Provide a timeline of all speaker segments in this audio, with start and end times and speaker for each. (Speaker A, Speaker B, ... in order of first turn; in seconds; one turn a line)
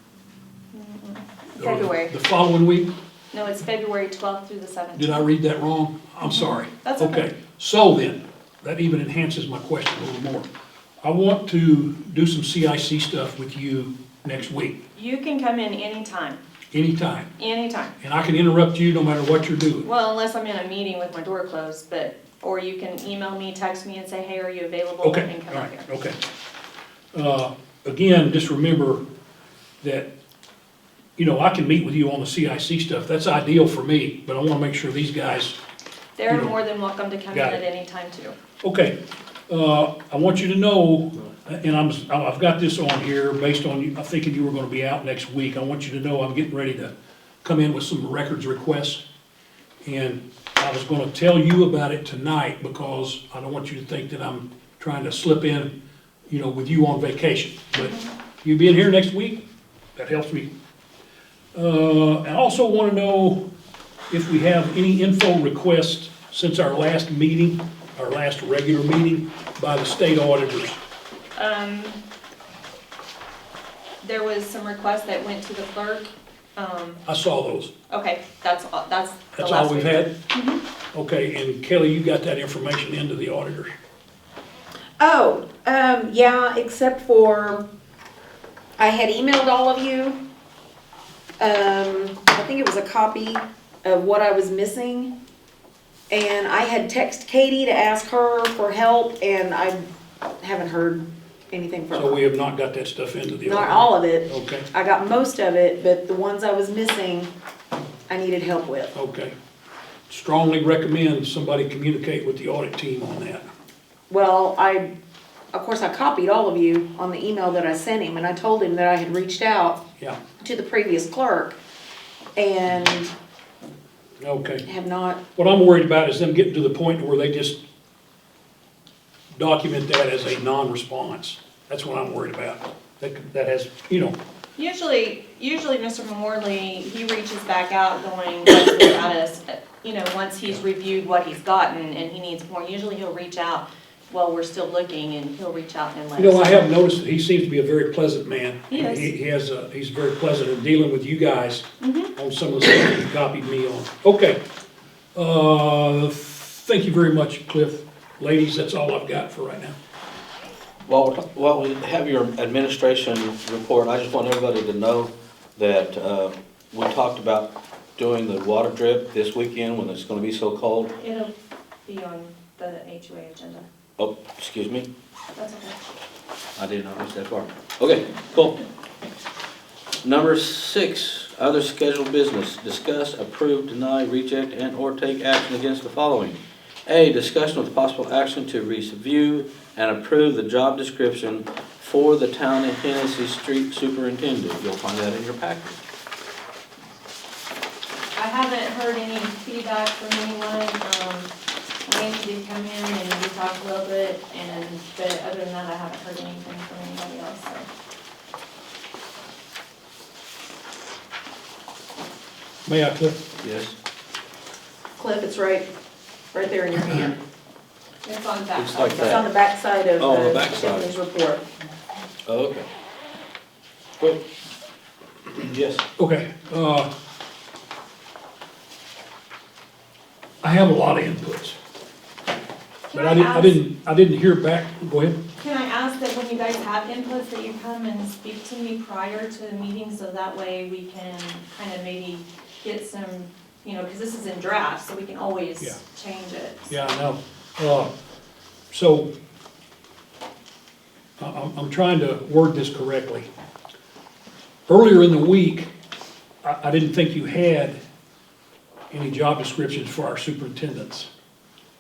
Speaker A: 0.7-2.1
Speaker B: 1.6-2.9
Speaker A: 3.3-5.2
Speaker B: 5.0-10.5
Speaker A: 6.2-7.2
Speaker B: 11.0-14.8
Speaker A: 14.9-16.4
Speaker B: 16.7-17.3
Speaker A: 17.4-17.9
Speaker B: 18.0-19.9
Speaker A: 19.8-25.9
Speaker B: 25.0-26.2
Speaker B: 27.1-29.0
Speaker B: 29.8-30.1
Speaker B: 31.2-35.6
Speaker A: 36.2-38.4
Speaker B: 37.3-37.6
Speaker B: 38.6-39.0
Speaker B: 39.5-46.9
Speaker B: 47.4-49.0
Speaker B: 49.8-55.7
Speaker B: 56.3-59.4
Speaker A: 57.8-58.0
Speaker B: 60.0-60.5
Speaker B: 61.5-63.4
Speaker B: 64.1-70.8
Speaker A: 71.3-72.0
Speaker A: 74.0-77.0
Speaker B: 77.1-77.7
Speaker A: 77.9-80.6
Speaker B: 79.4-80.2
Speaker B: 80.9-83.7
Speaker C: 85.0-87.7
Speaker C: 88.8-90.2
Speaker C: 91.4-95.1
Speaker C: 96.1-99.8
Speaker C: 100.4-102.2
Speaker B: 101.9-104.7
Speaker C: 103.4-107.3
Speaker C: 108.1-108.9
Speaker B: 108.9-109.3
Speaker B: 110.1-113.5
Speaker C: 114.1-114.9
Speaker C: 115.5-119.8
Speaker C: 120.4-121.6
Speaker C: 122.4-123.1
Speaker B: 124.2-124.6
Speaker C: 124.7-125.2
Speaker B: 125.4-127.6
Speaker B: 129.3-134.2
Speaker A: 134.6-146.7
Speaker B: 146.2-154.4
Speaker A: 148.7-149.1
Speaker A: 151.8-152.1
Speaker B: 155.1-159.8
Speaker D: 160.9-170.9
Speaker A: 171.0-171.3
Speaker A: 171.8-173.7
Speaker D: 174.0-174.9
Speaker A: 175.3-175.8
Speaker D: 176.6-178.6
Speaker D: 180.0-195.8
Speaker A: 198.1-201.3
Speaker A: 201.8-207.7
Speaker B: 212.7-213.2
Speaker D: 213.4-213.8
Speaker C: 215.0-215.7
Speaker C: 216.3-217.2
Speaker A: 218.0-219.2
Speaker D: 218.6-219.2
Speaker C: 219.0-221.4
Speaker D: 220.0-220.9
Speaker D: 222.2-222.7
Speaker D: 225.4-225.8
Speaker B: 226.0-226.9
Speaker B: 230.4-231.6
Speaker B: 232.9-235.2
Speaker A: 232.9-233.6
Speaker A: 235.4-246.7
Speaker B: 246.7-247.9
Speaker B: 248.7-249.1
Speaker B: 251.2-253.3
Speaker B: 254.7-255.7
Speaker B: 256.4-257.8
Speaker B: 258.9-261.1